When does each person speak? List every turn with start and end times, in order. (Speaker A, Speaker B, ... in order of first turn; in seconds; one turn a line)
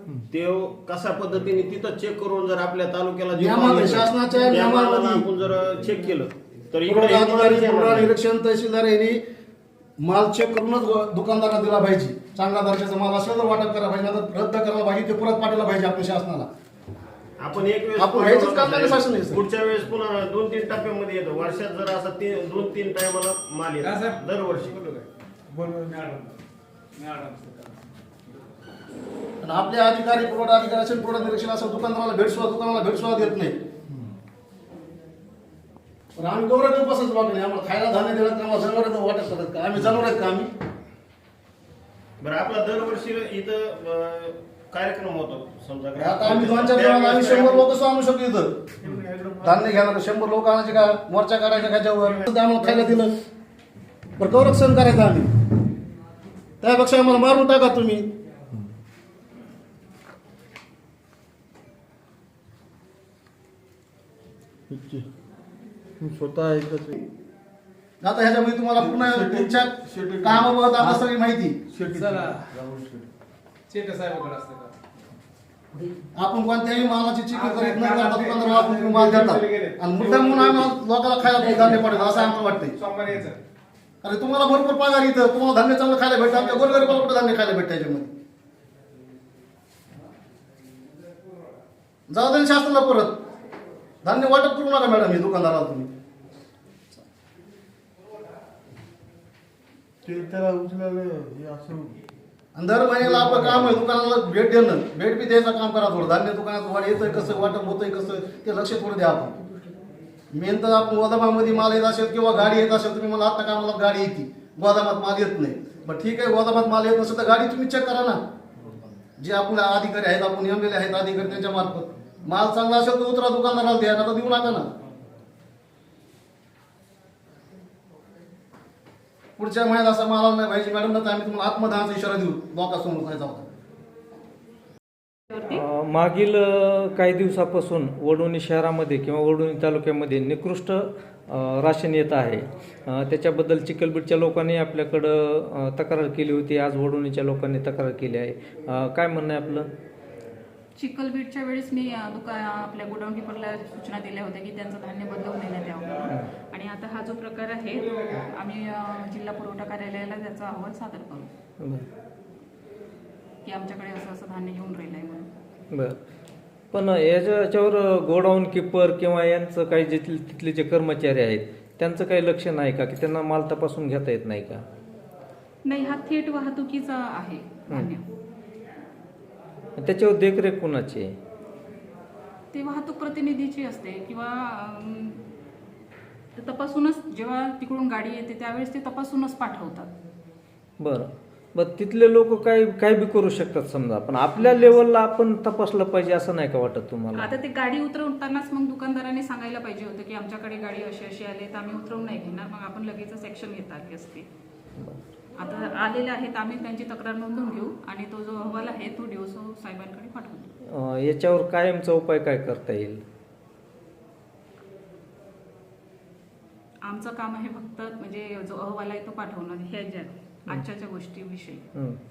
Speaker A: 0.3-8.1
Speaker B: 3.3-5.2
Speaker B: 6.8-9.2
Speaker B: 10.0-16.5
Speaker A: 17.4-24.8
Speaker B: 18.0-19.4
Speaker C: 23.8-25.0
Speaker C: 25.6-26.3
Speaker C: 27.0-27.6
Speaker B: 29.4-33.6
Speaker B: 36.2-40.5
Speaker A: 42.2-47.7
Speaker B: 46.0-48.5
Speaker D: 48.8-49.6
Speaker B: 49.4-53.1
Speaker B: 54.2-55.3
Speaker B: 56.6-58.0
Speaker D: 64.7-65.1
Speaker D: 66.0-67.0
Speaker B: 68.0-71.6
Speaker D: 68.8-71.0
Speaker D: 71.7-73.1
Speaker C: 71.9-72.5
Speaker C: 73.7-74.7
Speaker B: 76.1-82.8
Speaker C: 77.3-80.7
Speaker C: 81.3-83.4
Speaker B: 84.0-88.1
Speaker C: 86.5-86.9
Speaker B: 92.1-93.1
Speaker B: 94.0-95.9
Speaker D: 100.0-102.0
Speaker B: 102.5-109.3
Speaker D: 103.2-103.5
Speaker B: 110.3-118.2
Speaker B: 119.2-124.7
Speaker B: 129.4-133.4
Speaker E: 135.3-135.6
Speaker F: 135.5-149.7
Speaker E: 150.8-161.3
Speaker F: 161.6-161.8
Speaker E: 163.4-165.3
Speaker F: 166.7-174.6
Speaker E: 175.6-178.1
Speaker F: 179.8-181.1
Speaker E: 182.5-185.2
Speaker E: 186.3-189.9
Speaker F: 190.8-197.3
Speaker E: 194.3-194.8
Speaker E: 197.1-204.2
Speaker E: 205.3-210.5
Speaker F: 210.7-213.0
Speaker E: 216.8-221.6